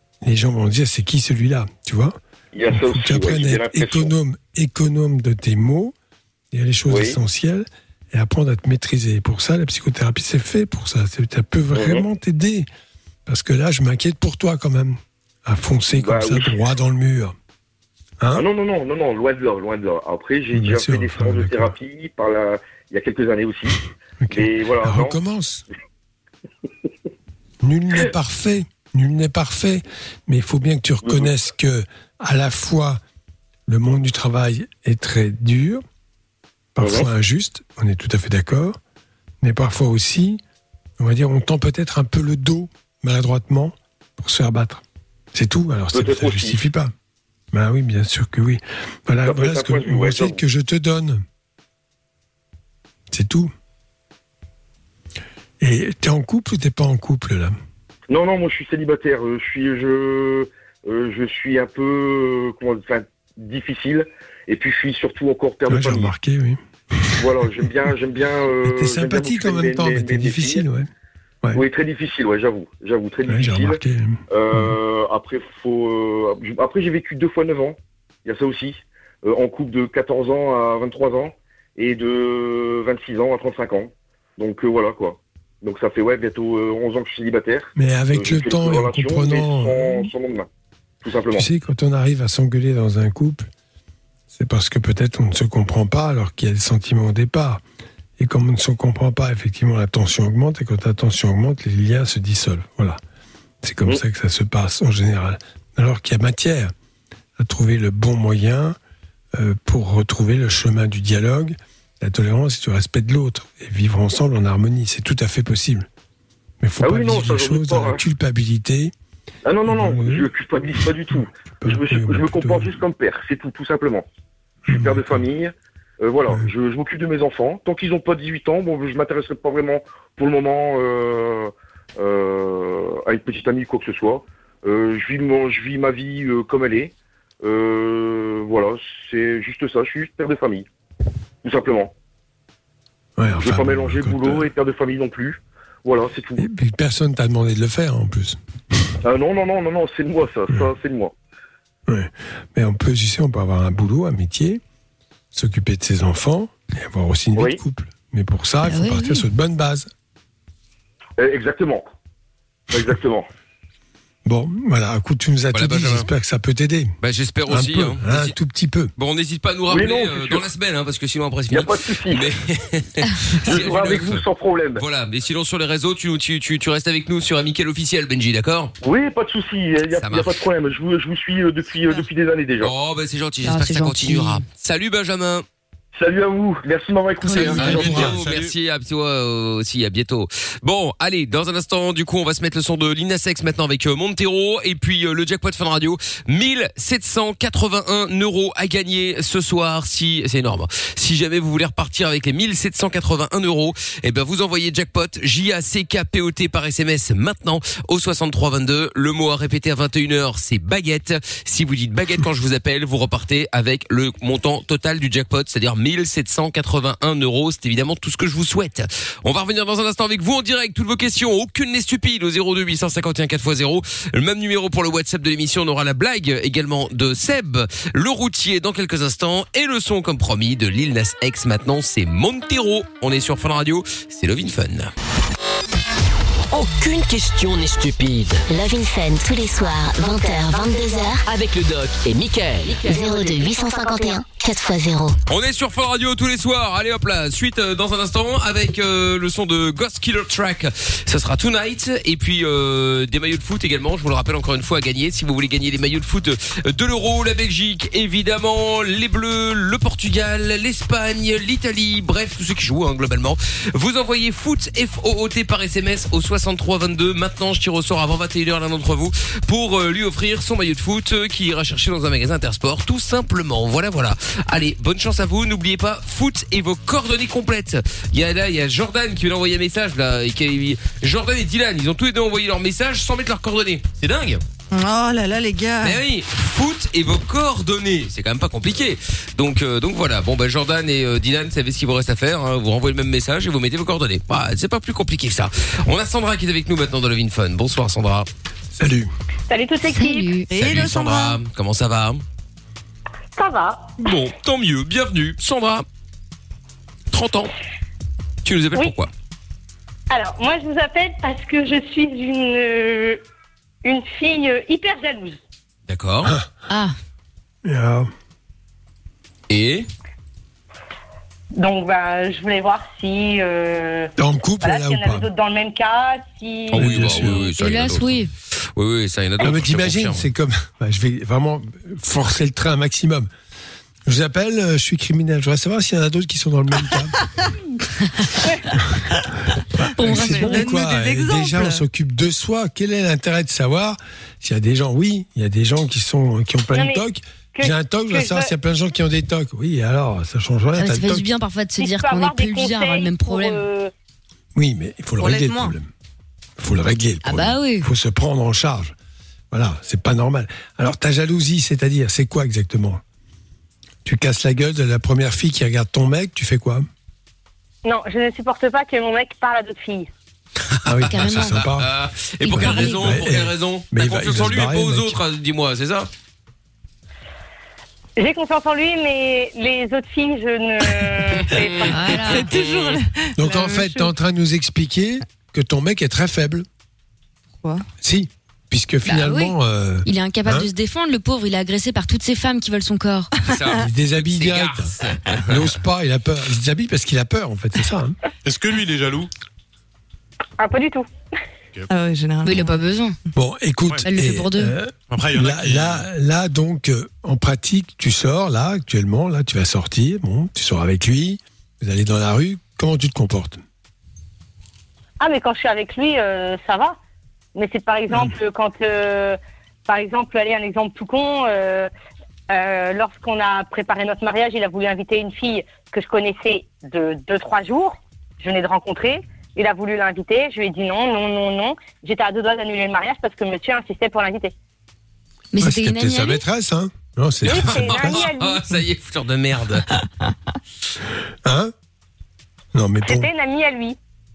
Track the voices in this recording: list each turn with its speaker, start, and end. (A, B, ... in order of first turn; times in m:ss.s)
0:00.2-0:05.9 A
0:02.5-0:04.1 B
0:06.5-0:12.7 A
0:06.9-0:07.2 B
0:11.7-0:12.0 B
0:13.3-0:17.4 A
0:16.0-0:16.6 B
0:18.2-0:18.4 A
0:18.3-0:25.2 B
0:20.5-0:21.7 A
0:24.2-0:25.6 A
0:27.6-0:33.0 A
0:31.0-0:31.3 B
0:33.7-0:35.8 A
0:36.8-0:38.8 A
0:36.8-0:37.1 B
0:39.4-0:40.4 A
0:41.0-0:46.9 A
0:45.9-0:46.6 B
0:47.5-0:51.2 A
0:49.2-0:50.4 B
0:53.1-0:53.5 A
0:55.6-0:57.6 A
0:58.1-1:06.1 B
1:05.7-1:07.2 A
1:07.2-1:10.6 B
1:08.6-1:10.9 A
1:11.5-1:30.5 B
1:13.3-1:14.8 A
1:27.8-1:30.1 A
1:31.0-1:31.5 B
1:31.3-1:33.5 A
1:34.3-1:37.6 A
1:38.2-1:43.0 A
1:43.6-1:46.7 A
1:47.4-1:48.8 A
1:49.3-1:55.9 A
1:56.6-1:58.9 A
1:56.8-1:58.0 B
1:59.4-2:04.0 B
1:59.7-2:00.3 A
2:01.1-2:02.8 A
2:04.7-2:05.2 A
2:04.7-2:20.7 B
2:21.4-2:21.9 B
2:23.2-2:24.5 A
2:23.4-2:26.4 B
2:26.4-2:28.4 A
2:29.0-2:31.1 B
2:31.9-2:34.6 A
2:35.3-2:39.9 A
2:38.6-2:39.2 C
2:41.2-2:41.9 B
2:42.7-2:43.3 B
2:44.2-2:48.9 A
2:45.5-2:46.1 D
2:47.0-2:48.3 D
2:49.0-2:54.2 D
2:49.7-2:50.5 B
2:51.5-2:52.3 B
2:53.5-2:54.8 B
2:54.8-2:58.7 D
2:58.8-3:02.7 B
3:00.0-3:00.3 D
3:02.6-3:05.4 D
3:03.4-3:04.4 C
3:06.0-3:08.1 B
3:07.2-3:07.9 C
3:07.4-3:08.6 E
3:07.4-3:54.9 D
3:07.6-3:08.2 A
3:56.5-3:58.4 F
3:58.5-4:01.2 G
4:01.3-4:02.9 F
4:02.8-4:05.2 G
4:02.9-4:04.2 H
4:05.3-4:44.4 D
4:44.7-4:46.0 I
4:45.8-4:58.3 D
4:58.8-4:59.1 A
4:59.5-5:00.3 H
4:59.8-5:00.5 C
5:00.5-5:01.4 I
5:00.6-5:02.2 D
5:03.4-5:04.0 H
5:04.0-5:05.8 D
5:07.1-5:07.5 D
5:08.4-5:09.1 D
5:10.1-5:13.2 H
5:13.8-5:15.4 H
5:15.9-5:16.3 D
5:16.7-5:16.9 C
5:17.6-5:18.1 A
5:19.5-5:19.9 D
5:21.6-5:27.3 H
5:24.2-5:25.3 A
5:26.7-5:27.5 A
5:26.7-5:28.2 D
5:27.6-5:28.3 C
5:28.8-5:30.2 D
5:29.4-5:33.3 A
5:34.0-5:37.2 A
5:39.8-5:51.3 A
5:40.0-5:40.7 C
5:40.0-5:41.8 I
5:46.7-5:48.5 H
5:50.8-5:53.6 C
5:51.8-5:53.9 H
5:54.6-5:55.9 A
5:55.2-5:55.7 I
5:56.6-5:58.9 A
5:57.2-5:57.9 C
5:59.5-6:03.0 A
6:04.0-6:06.9 A
6:07.8-6:10.1 H
6:10.8-6:11.9 A
6:11.1-6:11.6 C
6:11.4-6:16.1 D
6:12.4-6:13.3 C
6:12.5-6:15.2 A
6:18.2-6:22.0 H
6:21.9-6:22.5 C
6:22.0-6:24.1 I
6:23.4-6:26.7 A
6:28.0-6:30.7 A
6:29.1-6:33.3 C
6:33.4-6:35.7 D
6:33.7-6:35.0 A
6:35.5-6:38.2 A
6:38.4-6:39.3 E
6:40.6-6:41.1 H
6:41.9-6:42.8 I
6:42.4-6:43.2 C
6:43.4-6:53.6 A
6:44.0-6:44.8 C
6:45.1-6:46.0 E
6:55.2-6:57.0 H
6:57.6-7:01.9 H
7:02.5-7:14.5 H
7:15.5-7:16.4 C
7:15.6-7:18.2 A
7:17.4-7:18.6 H
7:17.4-7:19.9 D
7:21.4-7:21.7 A
7:22.7-7:23.3 A
7:23.0-7:24.0 H